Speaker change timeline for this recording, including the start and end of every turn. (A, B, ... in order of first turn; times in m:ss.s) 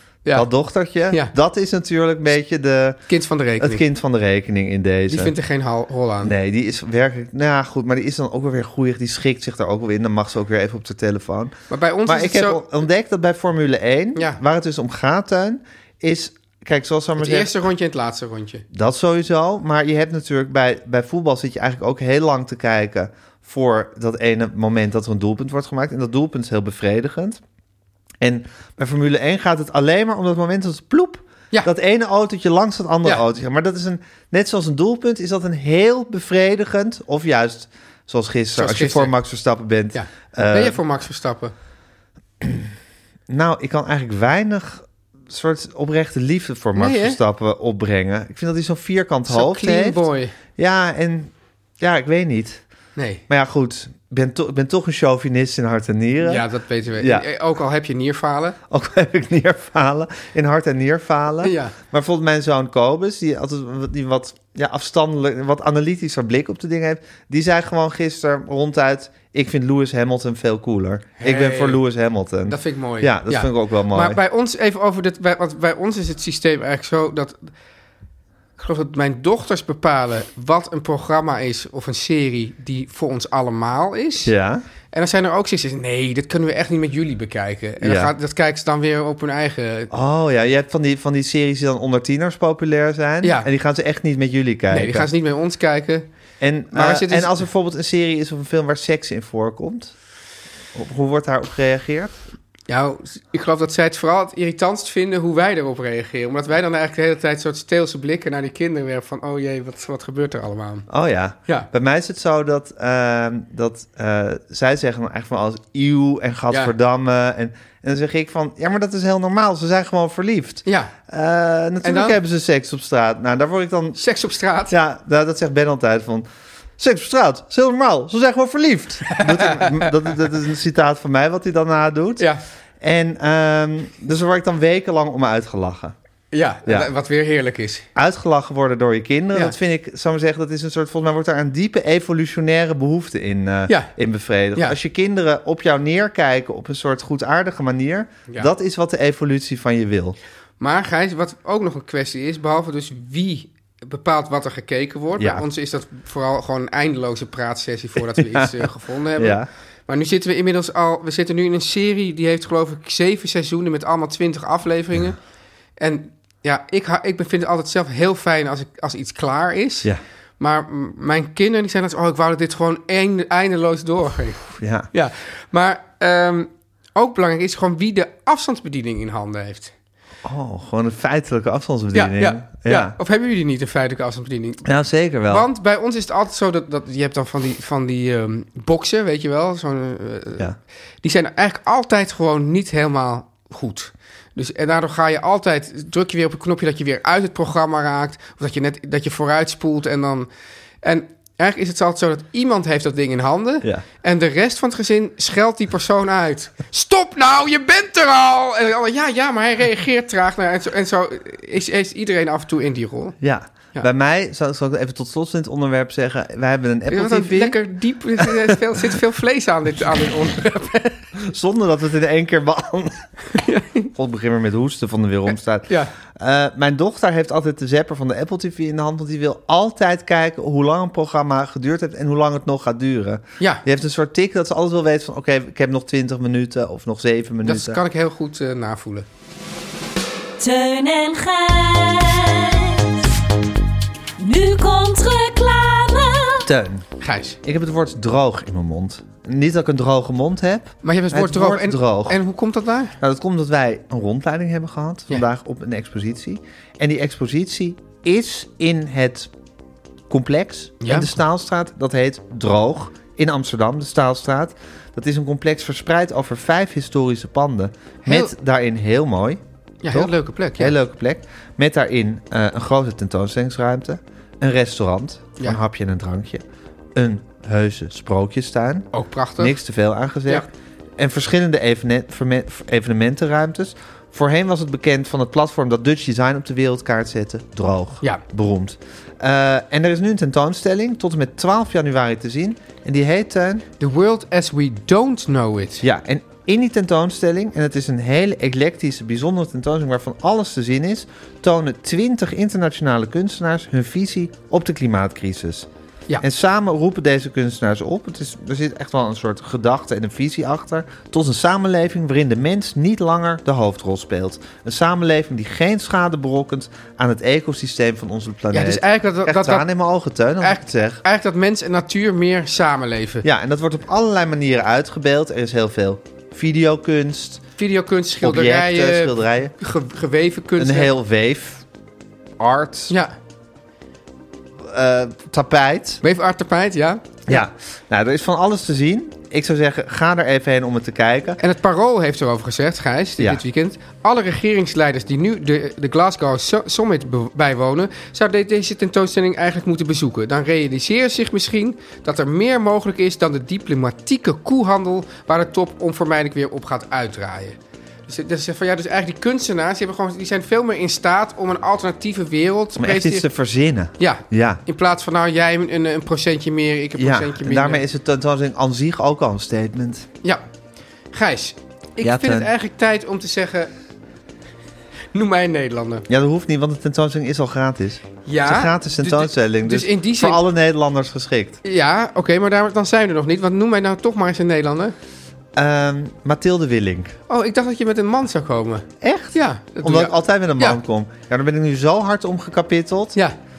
0:00.3-0:03.0 A
0:03.1-0:03.8 B
0:03.6-0:05.3 A
0:05.1-0:06.3 B
0:06.2-0:11.5 A
0:11.7-0:12.6 B
0:12.0-0:17.5 A
0:14.1-0:14.4 B
0:17.2-0:18.6 B
0:18.7-0:27.4 A
0:28.2-0:40.8 A
0:38.5-0:39.1 B
0:39.9-0:41.5 B
0:42.4-0:42.7 A
0:43.3-0:50.0 A
0:46.8-0:47.2 B
0:49.3-0:50.3 B
0:50.6-0:52.6 A
0:53.0-0:53.2 B
0:53.3-0:56.4 A
0:56.2-0:58.6 B
0:57.0-0:57.2 A
0:58.7-1:14.2 A
1:01.4-1:01.7 B
1:11.2-1:11.8 B
1:12.5-1:17.5 B
1:18.6-1:24.3 B
1:24.2-1:24.6 A
1:24.9-1:29.9 B
1:27.8-1:28.1 A
1:29.9-1:35.1 A
1:33.2-1:33.5 B
1:34.7-1:36.1 B
1:36.4-1:39.9 A
1:36.7-1:37.4 B
1:40.7-1:42.1 A
1:42.7-1:50.9 B
1:50.9-2:04.0 A
2:00.6-2:00.9 B
2:01.8-2:02.2 B
2:04.0-2:04.7 B
2:04.7-2:06.2 A
2:06.8-2:12.3 A
2:09.1-2:09.9 B
2:12.8-2:15.9 A
2:16.3-2:17.9 B
2:17.9-2:30.2 A
2:23.7-2:23.9 B
2:30.6-2:45.2 B
2:35.2-2:35.4 A
2:38.1-2:39.5 A
2:45.8-2:59.7 B
2:54.6-2:54.9 A
3:00.2-3:02.9 A
3:01.9-3:04.6 B
3:04.6-3:05.5 A
3:05.2-3:10.5 B
3:11.0-3:20.3 B
3:20.8-3:33.2 B
3:33.2-3:37.6 A
3:36.9-3:41.0 B
3:41.2-3:43.1 A
3:43.3-3:43.9 B
3:43.9-3:57.8 A
3:53.4-3:53.6 B
3:57.4-3:59.1 B
4:00.4-4:03.1 C
4:04.2-4:06.5 C
4:06.4-4:06.8 A
4:07.0-4:07.4 B
4:07.4-4:12.2 A
4:10.8-4:13.0 B
4:13.0-4:19.3 A
4:20.1-4:36.4 A
4:20.8-4:21.1 B
4:28.0-4:28.3 B
4:29.8-4:30.8 B
4:37.0-4:40.5 A
4:38.9-4:39.6 B
4:41.0-4:53.6 A
4:53.8-4:55.8 B
4:55.8-5:05.7 A
5:06.2-5:21.0 A
5:18.5-5:19.7 B
5:20.4-5:23.2 B
5:23.2-5:27.4 A
5:27.6-5:30.9 B
5:28.2-5:29.5 A
5:30.6-5:31.6 A
5:32.4-5:32.9 A
5:32.9-5:33.2 B
5:34.6-5:36.0 A
5:36.0-5:37.4 B
5:37.3-5:41.4 A
5:41.4-6:03.3 B
6:02.8-6:04.6 A
6:04.0-6:07.8 B
6:07.0-6:10.1 A
6:11.1-6:13.7 B
6:12.0-6:12.5 A
6:15.1-6:16.1 B
6:16.1-6:21.6 A
6:18.2-6:20.4 B
6:21.6-6:24.9 B
6:25.6-6:27.1 A
6:27.3-6:30.8 B
6:29.0-6:33.2 A